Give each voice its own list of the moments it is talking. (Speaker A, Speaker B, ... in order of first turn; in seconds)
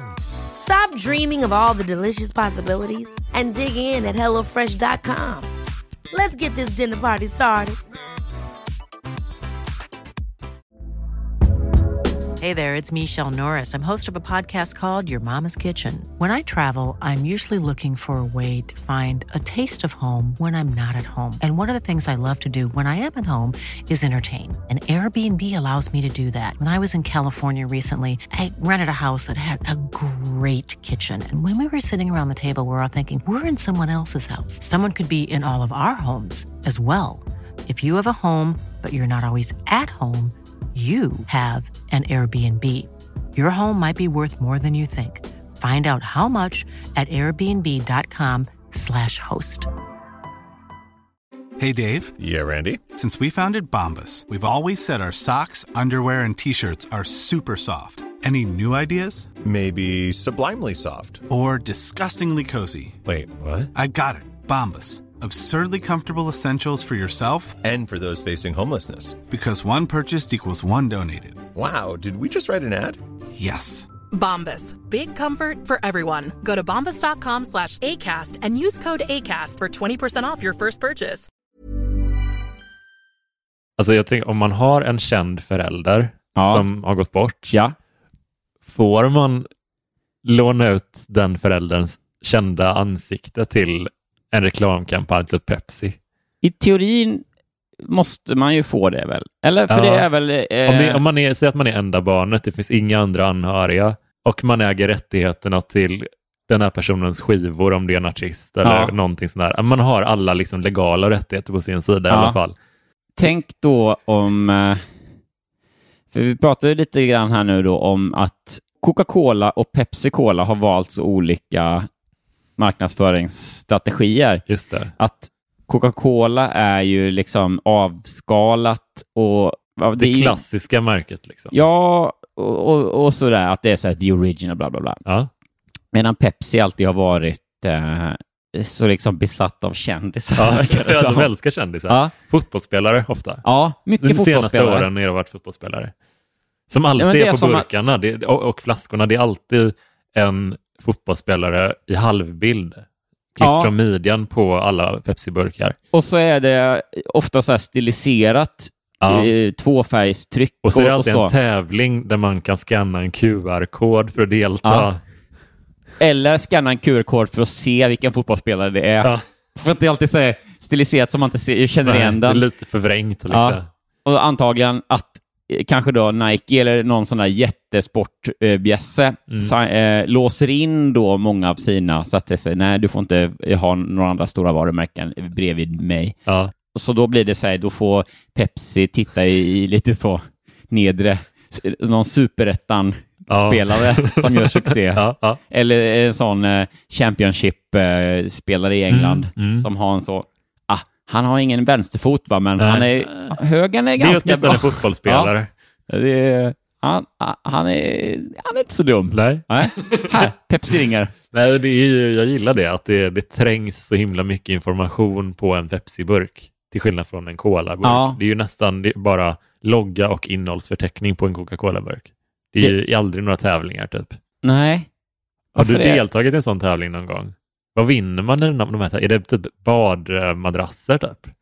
Speaker A: 0.6-5.5, 6.1-7.8
Speaker B: 12.4-49.7
Speaker C: 51.6-52.1, 52.9-59.3, 61.3-63.0, 63.7-67.6, 69.3-71.4, 73.4-73.9
Speaker D: 52.2-52.9, 59.4-61.2, 63.0-63.7, 67.6-69.2, 71.5-73.0
Speaker E: 74.1-81.3
Speaker F: 83.8-87.5, 88.7-89.5, 90.2-96.0, 99.7-100.1, 100.6-112.5, 124.5-124.9, 130.0-131.5, 140.3-143.4, 144.0-145.9, 146.7-152.8, 153.3-155.8, 159.0-159.3, 160.6-165.0, 171.8-173.7, 186.3-186.5, 193.3-195.4, 198.9-199.7, 202.6-203.3, 204.0-205.5, 209.1-210.3, 211.3-224.2, 225.6-231.3
Speaker G: 86.3-86.6, 96.4-97.2, 97.8-101.0, 108.6-108.9, 112.1-112.4, 113.2-114.8, 116.1-121.9, 122.6-124.4, 125.0-130.4, 131.5-135.0, 135.9-141.3, 141.9-142.1, 143.4-144.9, 147.0-147.7, 153.4-153.7, 155.9-161.3, 164.6-164.9, 166.0-172.4, 173.3-186.2, 186.7-205.3, 205.9-211.1, 217.8-218.2, 224.4-224.9, 225.5-226.0